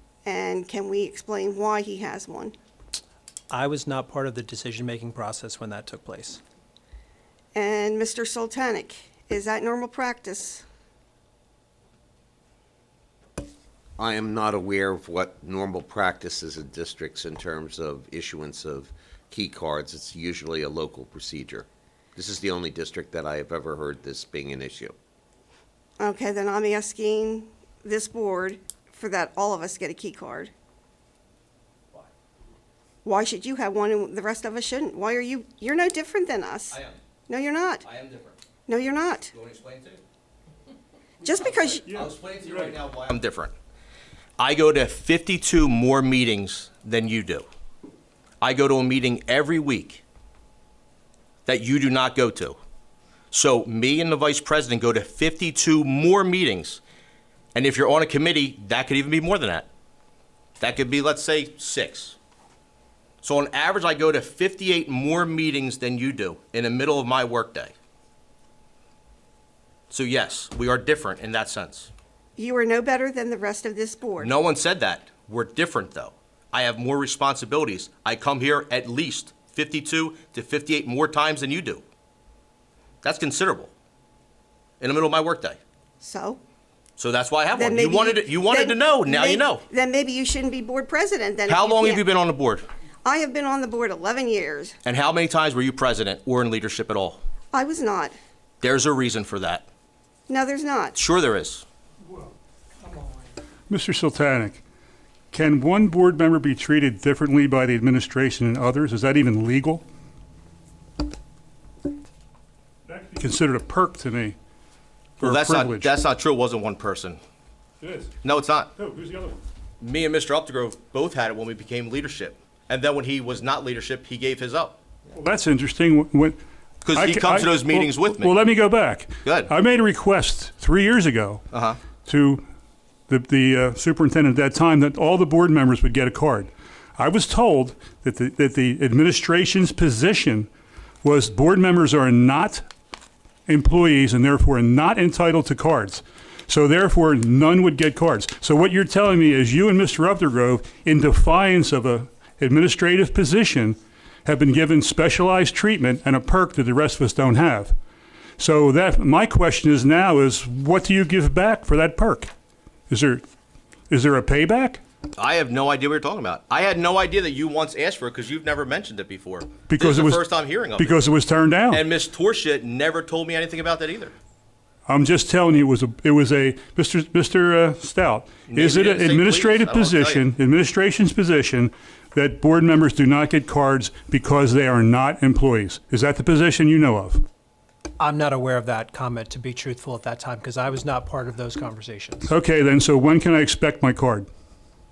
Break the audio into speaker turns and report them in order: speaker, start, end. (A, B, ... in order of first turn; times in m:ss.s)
0:00.2-0:02.5 A
0:03.5-0:06.4 B
0:07.6-0:10.6 A
0:14.0-0:24.9 C
0:26.0-0:30.5 A
0:33.0-0:37.8 A
0:36.7-0:37.0 D
0:37.8-0:38.4 D
0:38.7-0:39.3 A
0:39.3-0:40.0 D
0:41.2-0:41.8 A
0:41.4-0:43.5 D
0:44.4-0:47.5 D
0:48.4-0:50.0 D
0:51.5-0:52.6 D
0:53.3-0:56.8 D
0:57.5-0:59.7 D
1:00.6-1:02.2 D
1:03.2-1:07.7 D
1:09.9-1:11.9 D
1:12.4-1:14.3 A
1:14.2-1:21.8 D
1:23.0-1:23.7 D
1:24.8-1:25.6 D
1:26.0-1:26.4 A
1:27.0-1:29.6 D
1:27.5-1:32.1 A
1:31.5-1:32.6 D
1:33.0-1:34.8 A
1:34.8-1:37.2 D
1:37.5-1:38.2 A
1:38.6-1:39.7 D
1:40.3-1:41.0 A
1:41.0-1:41.6 D
1:43.7-1:44.6 E
1:45.3-1:49.8 E
1:52.9-1:54.4 E
1:55.2-1:56.0 E
1:55.2-1:57.2 D
1:57.8-1:58.1 E
1:58.2-1:58.7 D
1:58.8-1:59.4 E
1:59.8-2:04.8 D
2:05.1-2:06.4 E
2:06.8-2:08.4 D
2:06.9-2:11.4 E
2:09.2-2:09.5 D
2:11.5-2:11.8 D
2:12.0-2:12.4 E
2:13.1-2:20.5 E
2:21.0-2:22.6 E
2:23.5-2:37.8 E
2:38.4-2:42.3 E
2:42.9-2:43.2 E
2:43.9-2:44.8 E
2:45.2-2:51.0 D
2:49.7-2:50.2 E
2:50.8-2:51.8 E
2:51.7-2:54.1 D
2:54.9-3:07.2 E
2:58.5-3:00.2 D
3:08.0-3:12.3 B
3:12.3-3:14.3 E